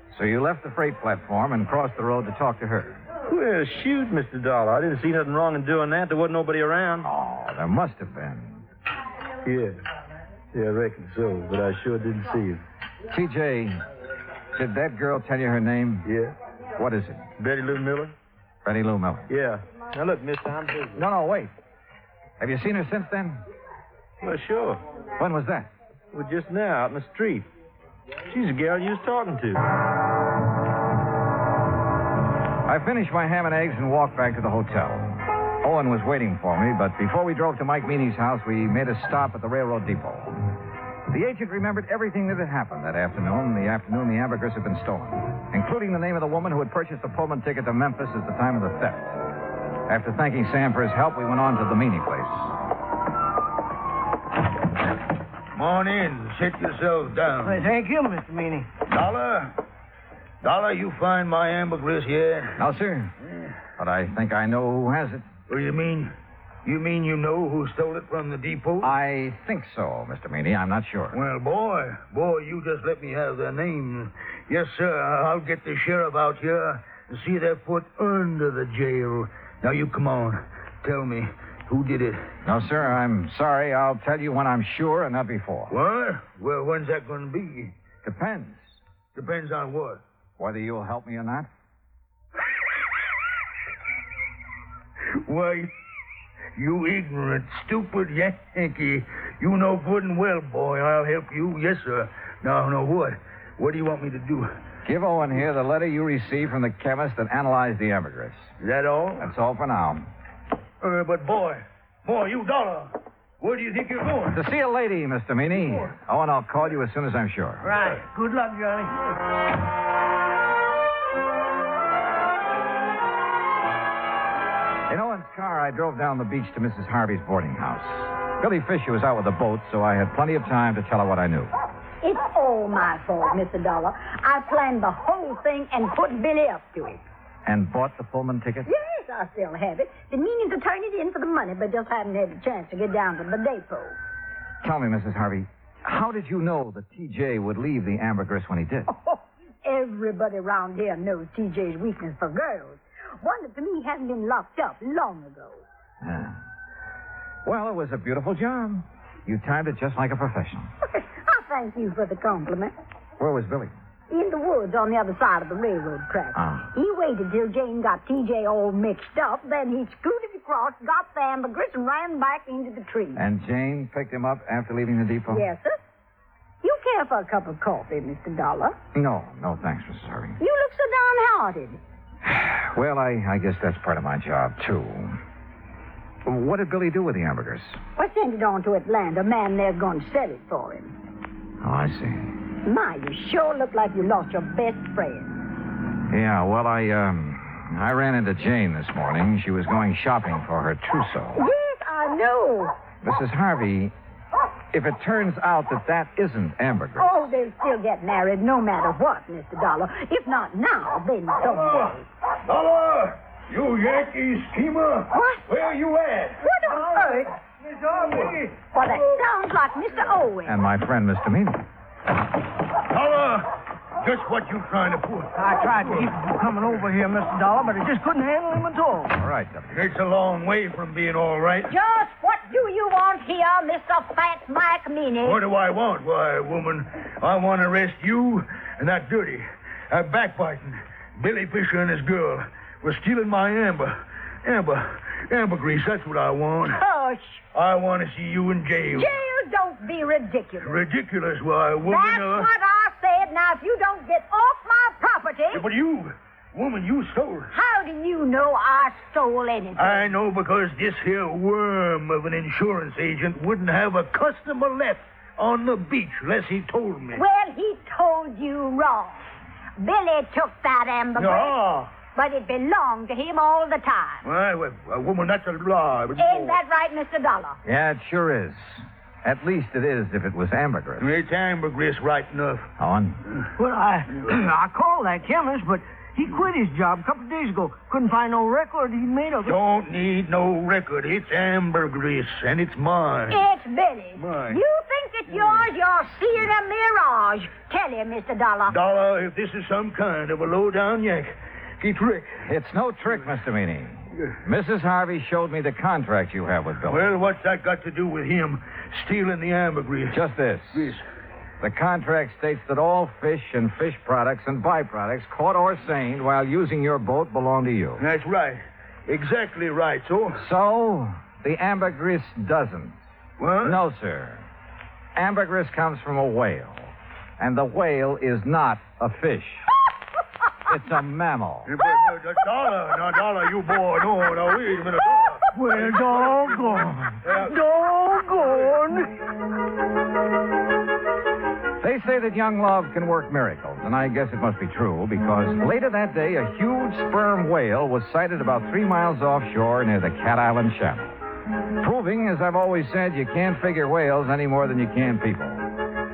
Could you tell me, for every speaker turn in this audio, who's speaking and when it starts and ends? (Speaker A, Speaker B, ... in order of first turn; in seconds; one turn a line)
Speaker A: 0.1-3.0
Speaker B: 3.2-7.1
Speaker A: 7.0-8.6
Speaker B: 9.4-9.8
Speaker B: 10.5-12.6
Speaker A: 13.1-13.8
Speaker A: 14.5-16.1
Speaker B: 16.0-16.3
Speaker A: 16.8-17.3
Speaker B: 17.4-18.1
Speaker A: 18.6-19.3
Speaker B: 19.3-21.0
Speaker A: 20.9-21.5
Speaker A: 22.4-23.4
Speaker B: 24.2-24.8
Speaker A: 25.2-25.7
Speaker B: 26.1-27.5
Speaker B: 28.3-29.6
Speaker A: 32.6-40.4
Speaker A: 41.1-49.2
Speaker A: 49.9-52.5
Speaker C: 55.5-57.6
Speaker D: 57.4-58.7
Speaker C: 58.9-59.5
Speaker C: 60.4-62.6
Speaker A: 62.6-63.1
Speaker A: 63.8-65.2
Speaker C: 65.5-66.1
Speaker C: 66.6-68.9
Speaker A: 68.8-71.2
Speaker C: 71.1-82.2
Speaker A: 82.4-85.7
Speaker C: 85.7-87.7
Speaker A: 88.0-88.7
Speaker C: 89.1-90.0
Speaker A: 90.4-91.5
Speaker C: 95.2-95.7
Speaker C: 96.5-104.5
Speaker A: 104.8-108.5
Speaker C: 108.6-109.3
Speaker A: 109.2-110.1
Speaker C: 110.8-114.4
Speaker A: 114.3-117.7
Speaker D: 117.6-119.1
Speaker A: 124.9-131.5
Speaker E: 132.0-137.0
Speaker A: 137.4-138.7
Speaker E: 138.7-143.9
Speaker A: 144.6-148.9
Speaker E: 148.9-155.6
Speaker A: 156.0-156.3
Speaker A: 157.4-160.7
Speaker E: 160.8-162.7
Speaker A: 163.2-163.7
Speaker E: 164.1-173.2
Speaker A: 166.3-166.7
Speaker A: 173.1-175.4
Speaker E: 175.3-175.8
Speaker E: 176.6-178.8
Speaker A: 178.9-180.4
Speaker E: 180.4-181.8
Speaker A: 182.2-185.2
Speaker A: 186.2-187.8
Speaker E: 188.0-190.9
Speaker A: 191.6-192.3
Speaker E: 192.6-195.4
Speaker A: 196.1-201.4
Speaker E: 201.3-202.7
Speaker A: 203.0-203.9
Speaker A: 204.7-207.1
Speaker E: 207.0-212.0
Speaker C: 211.4-216.4
Speaker E: 215.1-215.4
Speaker E: 216.4-217.2
Speaker D: 216.7-218.6
Speaker E: 218.7-220.5
Speaker A: 220.4-221.6
Speaker C: 222.9-225.3
Speaker D: 225.3-229.1
Speaker A: 229.1-229.8
Speaker C: 229.7-231.7
Speaker E: 231.7-235.4
Speaker C: 235.2-246.8
Speaker E: 246.7-247.4
Speaker C: 247.5-249.1
Speaker E: 248.9-250.8
Speaker C: 250.6-252.5
Speaker E: 251.8-255.7
Speaker C: 255.5-257.5
Speaker E: 257.5-260.1
Speaker C: 259.8-267.2
Speaker E: 267.1-269.2
Speaker E: 269.8-271.6
Speaker C: 271.1-271.9
Speaker E: 272.1-274.2
Speaker C: 274.2-276.6
Speaker E: 276.2-277.6
Speaker A: 277.6-281.1
Speaker C: 281.0-282.7
Speaker A: 282.8-283.2
Speaker D: 283.6-289.6
Speaker C: 289.4-293.4
Speaker E: 293.3-298.7
Speaker C: 294.2-294.6
Speaker C: 298.7-302.4
Speaker A: 302.4-307.1
Speaker C: 306.9-310.2
Speaker A: 310.1-310.9
Speaker C: 310.7-311.0
Speaker A: 311.6-318.0
Speaker C: 318.0-320.4
Speaker A: 320.4-323.0
Speaker C: 323.4-323.8
Speaker A: 323.6-324.5
Speaker A: 325.1-329.7
Speaker A: 330.7-331.7
Speaker C: 331.6-337.6
Speaker D: 335.5-339.1
Speaker A: 341.8-351.2
Speaker A: 351.8-355.7